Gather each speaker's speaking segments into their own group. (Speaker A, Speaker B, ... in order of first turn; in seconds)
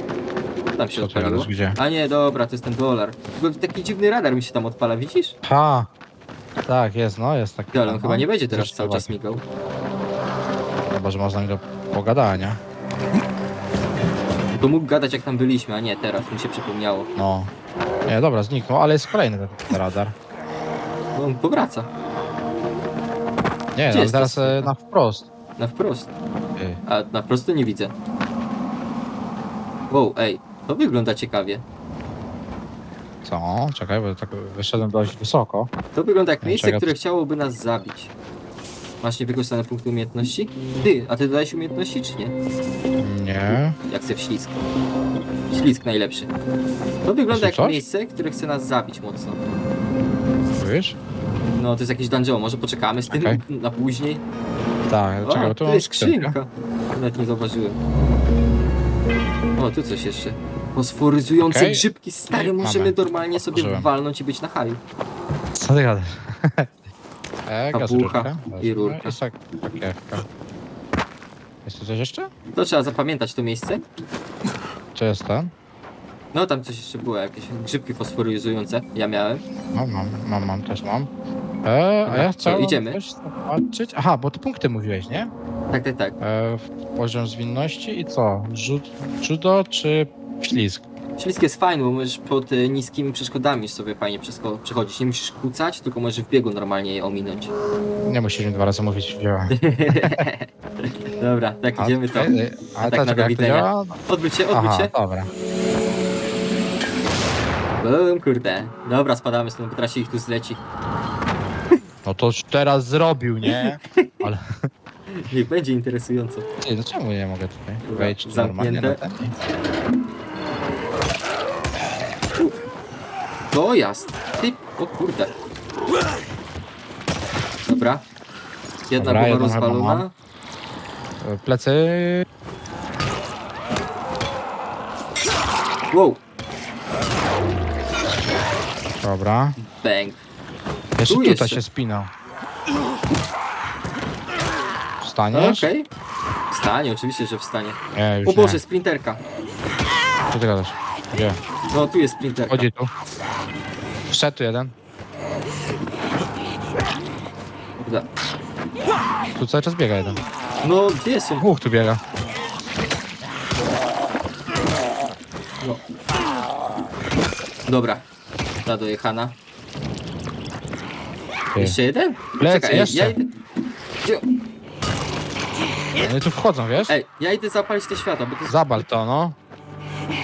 Speaker A: 0.7-5.3, 7.7-9.4, 14.6-17.1, 21.1-21.9, 23.9-24.7, 25.6-26.1, 26.9-27.9, 29.9-31.6, 35.9-38.1, 39.0-42.3, 43.9-44.6, 45.5-46.3, 47.0-49.4, 51.6-54.2, 55.2-57.8, 59.6-64.8, 67.7-69.2, 72.5-73.8, 76.3-79.4, 82.0-83.0, 85.7-86.1, 91.2-97.5, 99.5-104.9, 107.8-110.6, 113.5-114.3, 115.1-116.5, 117.8-119.0, 123.5-125.3, 127.7-128.0, 128.9-130.1, 135.9-136.2, 139.6-140.2, 141.0-141.6, 145.3-145.9, 146.5-149.2, 151.7-152.7, 157.8-158.1, 160.6-161.5, 167.7-168.0, 168.7-169.3, 171.6-173.3, 176.8-178.8
Speaker B: 1.0-1.8, 5.4-5.9, 6.6-9.2, 10.9-12.6, 17.1-17.5, 18.0-20.1, 23.7-25.3, 33.2-35.7, 36.4-36.9, 43.0-43.8, 47.3-47.8, 50.5-51.0, 53.1-53.4, 54.9-56.3, 61.5-63.9, 65.5-66.7, 67.5-70.2, 71.6-72.3, 74.9-75.5, 79.7-81.1, 81.6-85.3, 86.2-90.8, 98.0-100.2, 101.8-104.0, 104.5-105.3, 112.0-114.7, 116.6-119.3, 129.0-130.0, 131.2-132.2, 139.0-139.6, 141.0-142.1, 145.0-145.7, 147.9-148.6, 150.3-151.4, 152.5-152.9, 154.1-154.7, 159.3-160.2, 161.4-162.0, 172.4-173.2, 176.0-177.0, 178.5-179.4